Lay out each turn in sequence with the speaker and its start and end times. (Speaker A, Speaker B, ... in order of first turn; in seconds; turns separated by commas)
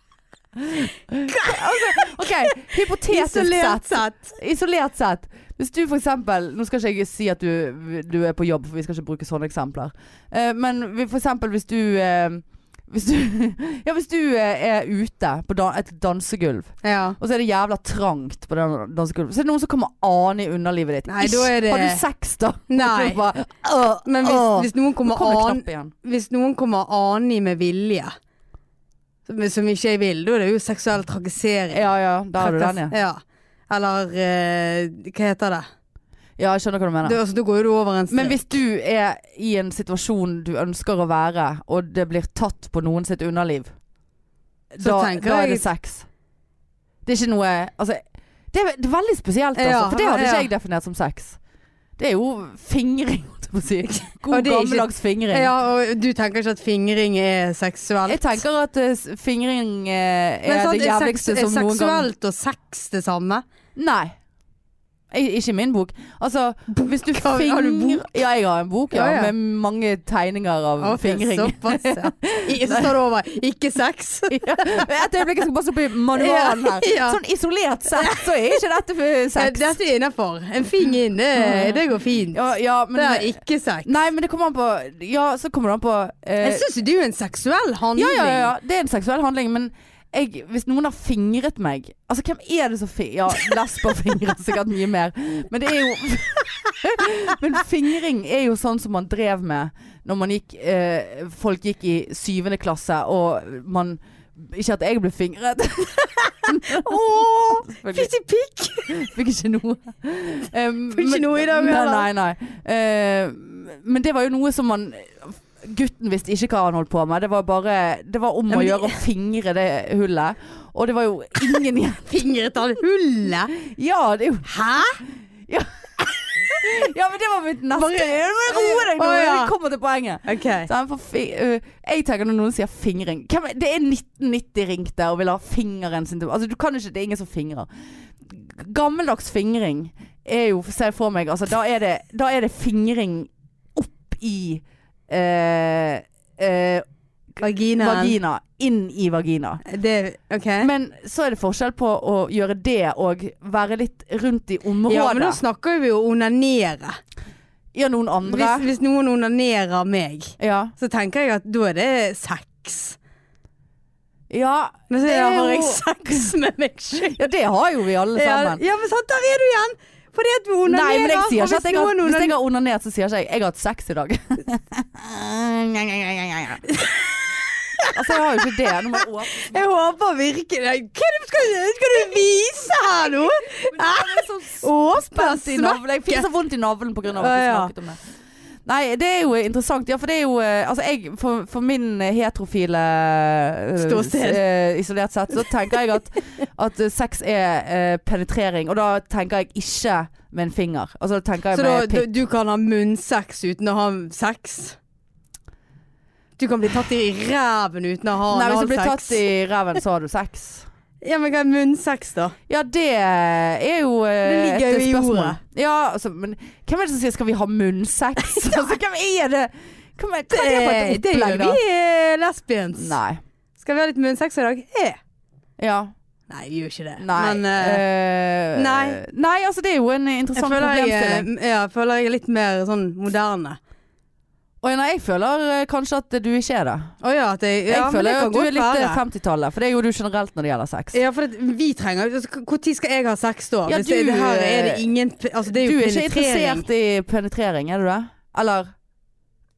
Speaker A: 0.5-25.9, Speaker B: 1.2-4.3, Speaker B: 16.8-17.2, Speaker B: 21.1-22.0, Speaker B: 22.7-23.2, Speaker B: 24.0-28.1, Speaker B: 29.2-31.9, Speaker A: 31.7-32.9, Speaker B: 32.4-35.6, Speaker A: 36.4-37.2, Speaker B: 37.0-38.6, Speaker A: 38.1-43.7, Speaker A: 44.7-46.0, Speaker B: 44.8-45.6, Speaker A: 47.0-51.4, Speaker B: 49.6-50.5, Speaker A: 52.0-55.5, Speaker B: 53.8-58.4, Speaker A: 58.1-62.1, Speaker B: 60.5-63.4, Speaker A: 63.8-64.2, Speaker A: 65.1-72.9, Speaker B: 66.8-68.1, Speaker B: 68.9-69.3, Speaker B: 70.8-74.9, Speaker A: 74.3-79.8, Speaker B: 76.1-77.2, Speaker B: 77.9-78.3, Speaker B: 79.3-82.4, Speaker A: 81.3-86.6, Speaker B: 82.9-83.9, Speaker B: 86.4-88.5, Speaker A: 88.0-108.1, Speaker B: 106.2-109.1, Speaker A: 108.9-122.2, Speaker B: 110.9-112.1, Speaker B: 118.5-119.0, Speaker B: 122.1-123.5, Speaker A: 123.6-146.8, Speaker B: 124.4-125.0, Speaker B: 127.8-129.5, Speaker B: 130.2-130.7, Speaker A: 147.4-149.6, Speaker B: 147.4-148.2, Speaker B: 149.7-150.7, Speaker A: 150.6-155.4, Speaker B: 154.9-157.0, Speaker A: 157.7-158.7, Speaker B: 158.2-163.0, Speaker A: 160.4-160.7, Speaker A: 164.3-166.3, Speaker B: 164.9-167.2, Speaker A: 167.0-168.6, Speaker B: 168.1-172.3, Speaker A: 170.7-176.6, Speaker B: 176.7-186.3, Speaker A: 177.9-179.6, Speaker A: 183.1-188.0, Speaker B: 187.1-187.7, Speaker A: 188.7-202.1, Speaker B: 193.8-194.4, Speaker B: 201.5-204.8, Speaker B: 206.4-209.2, Speaker A: 208.3-210.7, Speaker B: 211.0-212.3, Speaker A: 212.5-221.6, Speaker B: 214.2-215.4, Speaker B: 218.2-218.6, Speaker B: 220.3-222.9, Speaker A: 222.8-223.2, Speaker B: 223.6-225.0, Speaker A: 225.6-225.9, Speaker B: 226.3-227.8, Speaker A: 227.0-231.3, Speaker B: 228.5-229.0, Speaker B: 230.3-233.6, Speaker A: 234.6-236.9, Speaker B: 237.0-239.0, Speaker A: 237.7-241.0, Speaker B: 240.9-246.7, Speaker A: 243.7-244.8, Speaker A: 245.4-248.7